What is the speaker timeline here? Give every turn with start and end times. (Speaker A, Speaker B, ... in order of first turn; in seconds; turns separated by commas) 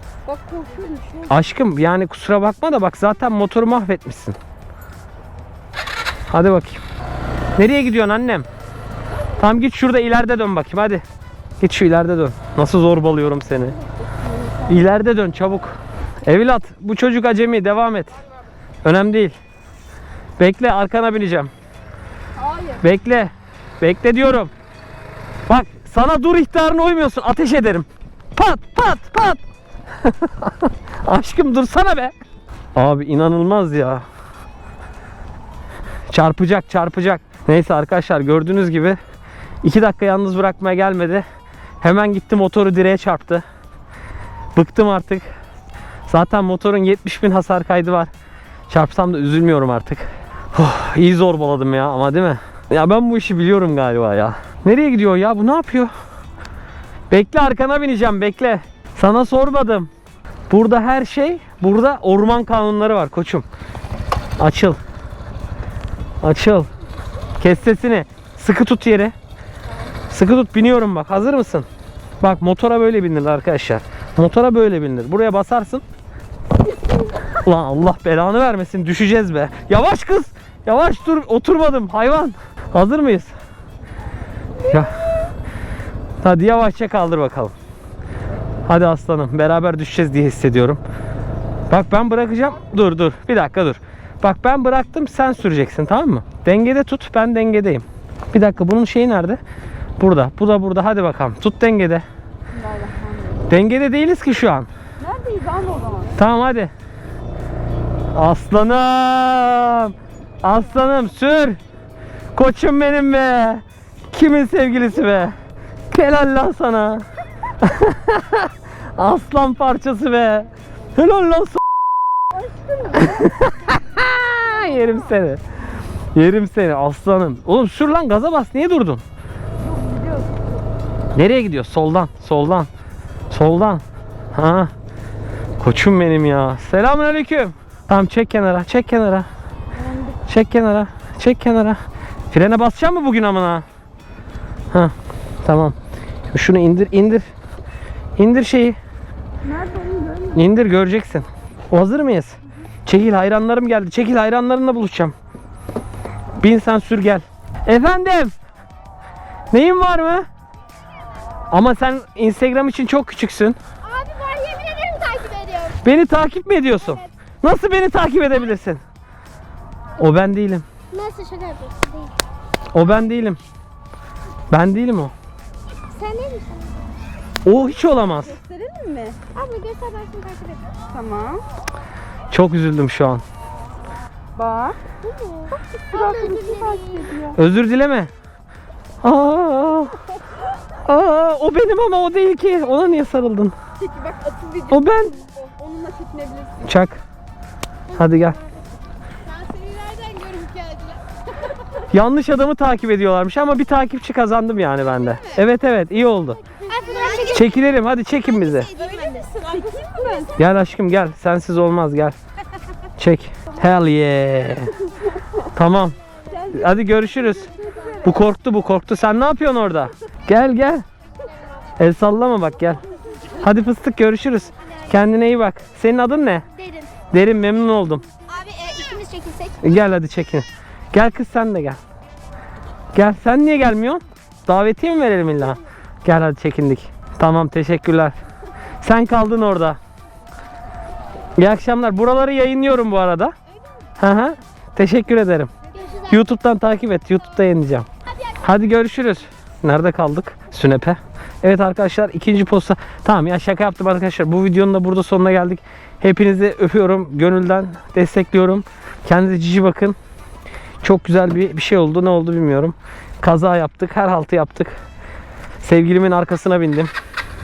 Speaker A: 0.3-1.4, Speaker B: 1.3-4.4, Speaker B: 6.3-6.8, Speaker B: 7.6-8.5, Speaker B: 9.4-11.0, Speaker B: 11.6-13.8, Speaker A: 13.8-14.9, Speaker B: 14.7-18.2, Speaker B: 18.8-19.4, Speaker B: 20.4-21.5, Speaker A: 22.4-22.8, Speaker B: 22.8-24.5, Speaker B: 25.5-29.4, Speaker B: 30.0-32.1, Speaker B: 32.8-34.0, Speaker B: 36.1-39.0, Speaker B: 39.6-41.2, Speaker B: 41.8-43.4, Speaker B: 44.5-45.3, Speaker B: 46.1-48.1, Speaker B: 48.7-55.9, Speaker B: 57.1-59.9, Speaker B: 60.5-63.5, Speaker B: 64.4-64.8, Speaker B: 66.2-66.7, Speaker B: 67.4-69.1, Speaker B: 70.1-71.7, Speaker B: 72.2-75.8, Speaker B: 77.4-83.3, Speaker B: 84.7-85.0, Speaker B: 86.2-87.5, Speaker B: 88.7-90.8, Speaker B: 91.7-99.4, Speaker B: 100.0-102.0, Speaker A: 102.5-103.5, Speaker B: 103.5-104.7, Speaker A: 105.0-106.2, Speaker B: 106.2-106.7, Speaker B: 108.2-111.6, Speaker B: 112.3-115.3, Speaker B: 115.9-117.0, Speaker B: 117.6-121.6, Speaker A: 122.3-123.3, Speaker B: 123.0-125.4, Speaker B: 126.2-129.0, Speaker A: 129.6-130.5, Speaker B: 131.2-132.7, Speaker B: 133.3-134.7, Speaker B: 135.6-139.3, Speaker A: 139.8-140.2, Speaker B: 140.3-141.8, Speaker B: 142.3-143.7, Speaker B: 144.7-145.8, Speaker B: 146.3-147.2, Speaker B: 148.2-148.8, Speaker A: 149.4-150.5, Speaker B: 150.3-155.1, Speaker B: 156.4-158.3, Speaker B: 159.5-160.3, Speaker B: 161.5-163.6, Speaker C: 163.8-165.8, Speaker B: 165.8-168.8, Speaker B: 170.0-170.7, Speaker C: 170.9-172.1, Speaker B: 172.7-173.4, Speaker B: 174.5-175.1, Speaker C: 175.9-176.8, Speaker B: 177.4-178.4, Speaker A: 178.2-179.2, Speaker C: 179.3-180.7, Speaker A: 180.9-181.4, Speaker B: 182.3-183.2, Speaker A: 184.4-184.8, Speaker C: 185.0-187.1, Speaker A: 185.8-187.4, Speaker B: 187.3-188.1, Speaker B: 189.0-190.0, Speaker B: 190.8-193.5, Speaker A: 193.8-196.7, Speaker B: 194.7-195.2, Speaker B: 196.7-197.0, Speaker C: 197.9-198.6, Speaker B: 197.9-198.4, Speaker C: 199.3-201.0, Speaker B: 201.9-206.4, Speaker C: 206.7-207.6, Speaker A: 206.7-207.4, Speaker B: 207.3-208.7, Speaker C: 208.3-210.4, Speaker A: 208.7-210.4, Speaker B: 210.4-212.2, Speaker B: 213.0-214.8, Speaker B: 215.5-216.0, Speaker A: 216.3-218.2, Speaker B: 216.5-217.5, Speaker B: 218.0-220.8, Speaker B: 221.8-222.8, Speaker B: 223.4-226.5, Speaker C: 226.6-226.9, Speaker B: 227.1-228.1, Speaker C: 228.3-229.7, Speaker B: 229.6-231.8, Speaker B: 232.9-238.2, Speaker B: 238.8-239.8, Speaker B: 241.4-243.3, Speaker B: 244.0-245.5, Speaker C: 245.7-246.2, Speaker B: 246.1-260.0, Speaker B: 260.8-264.8, Speaker B: 265.6-266.9